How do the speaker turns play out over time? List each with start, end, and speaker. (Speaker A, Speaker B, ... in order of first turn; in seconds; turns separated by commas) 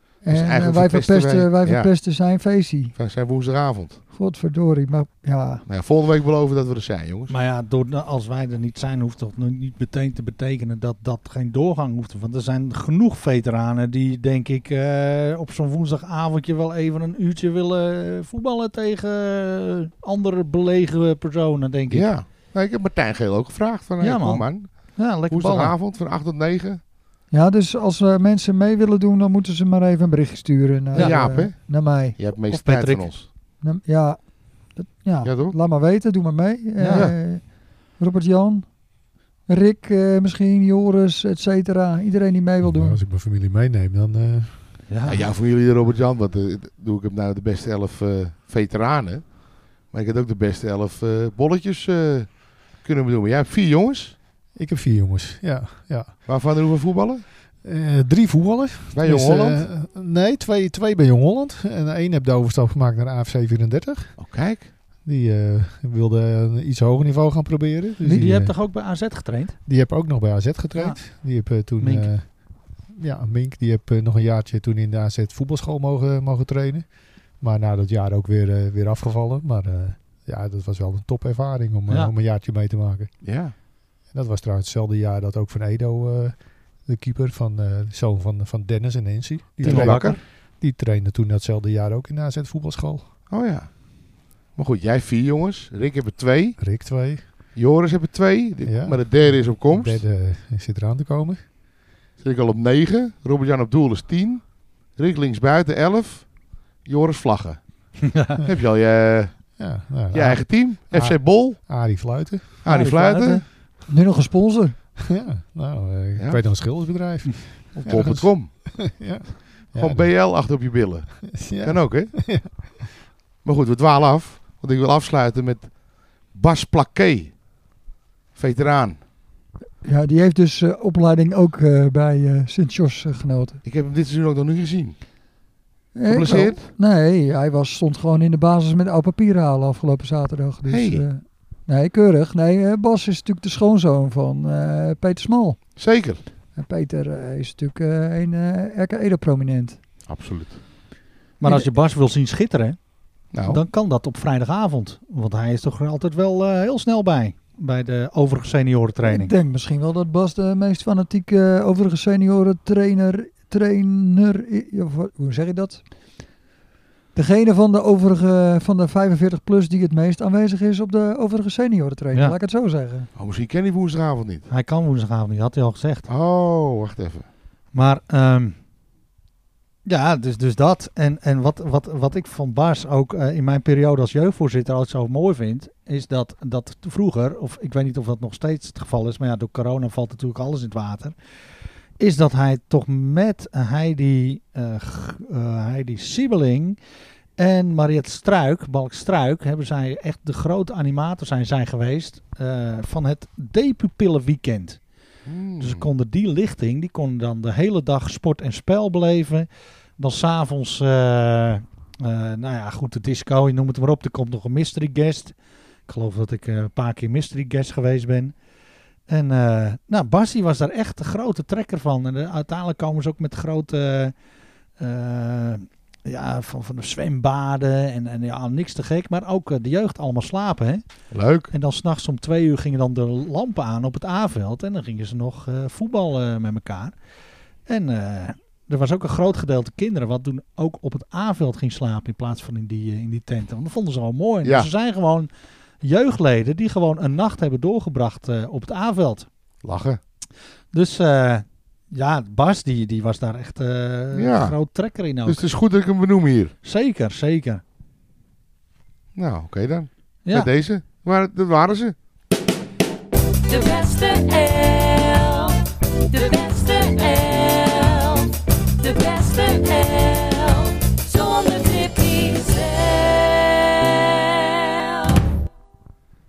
Speaker A: 0.2-1.9, Speaker B: 0.2-3.0, Speaker A: 3.0-4.0, Speaker B: 4.1-5.6, Speaker A: 5.7-7.3, Speaker C: 7.3-22.1, Speaker A: 21.9-26.8, Speaker C: 24.0-25.8, Speaker B: 27.3-32.2, Speaker C: 30.9-31.2, Speaker A: 30.9-33.3, Speaker C: 32.5-33.1, Speaker B: 33.6-38.8, Speaker A: 35.2-35.6, Speaker C: 36.8-37.1, Speaker A: 36.9-37.1, Speaker B: 39.5-43.0, Speaker D: 42.6-44.8, Speaker C: 44.9-45.3, Speaker A: 45.1-54.2, Speaker D: 54.5-56.2, Speaker A: 56.2-57.2, Speaker D: 57.6-64.2, Speaker A: 58.9-59.7, Speaker A: 64.2-64.7, Speaker D: 65.0-68.6, Speaker C: 68.0-69.6, Speaker D: 69.7-83.1, Speaker C: 70.8-71.0, Speaker C: 71.8-72.1, Speaker A: 83.2-83.5, Speaker D: 84.1-93.1, Speaker C: 89.6-90.2, Speaker A: 89.6-90.2, Speaker A: 93.3-93.8, Speaker A: 94.5-96.6, Speaker D: 96.6-97.2, Speaker A: 97.5-100.0, Speaker D: 98.6-101.5, Speaker A: 102.2-109.6, Speaker C: 108.0-108.4, Speaker D: 109.6-112.6, Speaker A: 110.1-111.6, Speaker A: 112.6-113.5, Speaker C: 112.7-113.4, Speaker B: 113.9-114.8, Speaker D: 115.0-120.1, Speaker A: 116.2-116.4, Speaker A: 117.8-118.9, Speaker A: 119.8-122.2, Speaker D: 121.3-122.8, Speaker A: 123.4-127.3, Speaker A: 128.3-129.0, Speaker B: 129.8-133.6, Speaker A: 133.7-135.0, Speaker B: 135.9-145.6, Speaker A: 136.1-136.7, Speaker A: 140.7-141.1, Speaker A: 145.8-146.2, Speaker B: 146.6-149.8, Speaker A: 150.1-150.6, Speaker B: 151.4-151.7, Speaker C: 151.4-152.8, Speaker A: 153.3-153.6, Speaker C: 153.4-159.3, Speaker B: 159.0-165.8, Speaker B: 167.1-173.1, Speaker A: 173.2-174.5, Speaker C: 174.5-176.1, Speaker A: 176.1-177.3, Speaker C: 177.7-178.6, Speaker C: 179.8-191.2, Speaker C: 192.0-196.8, Speaker C: 197.4-204.8, Speaker A: 205.3-205.9, Speaker C: 205.6-215.3, Speaker C: 215.9-218.3, Speaker C: 219.1-224.1, Speaker C: 224.8-230.8, Speaker A: 231.1-231.5, Speaker C: 231.5-236.9, Speaker C: 237.7-245.3, Speaker C: 245.8-249.3, Speaker A: 249.6-250.0, Speaker C: 250.7-255.5, Speaker A: 254.1-254.6, Speaker A: 255.2-256.5, Speaker C: 256.6-257.6, Speaker A: 259.1-262.0, Speaker C: 260.2-260.5, Speaker E: 263.5-273.9, Speaker E: 274.7-275.2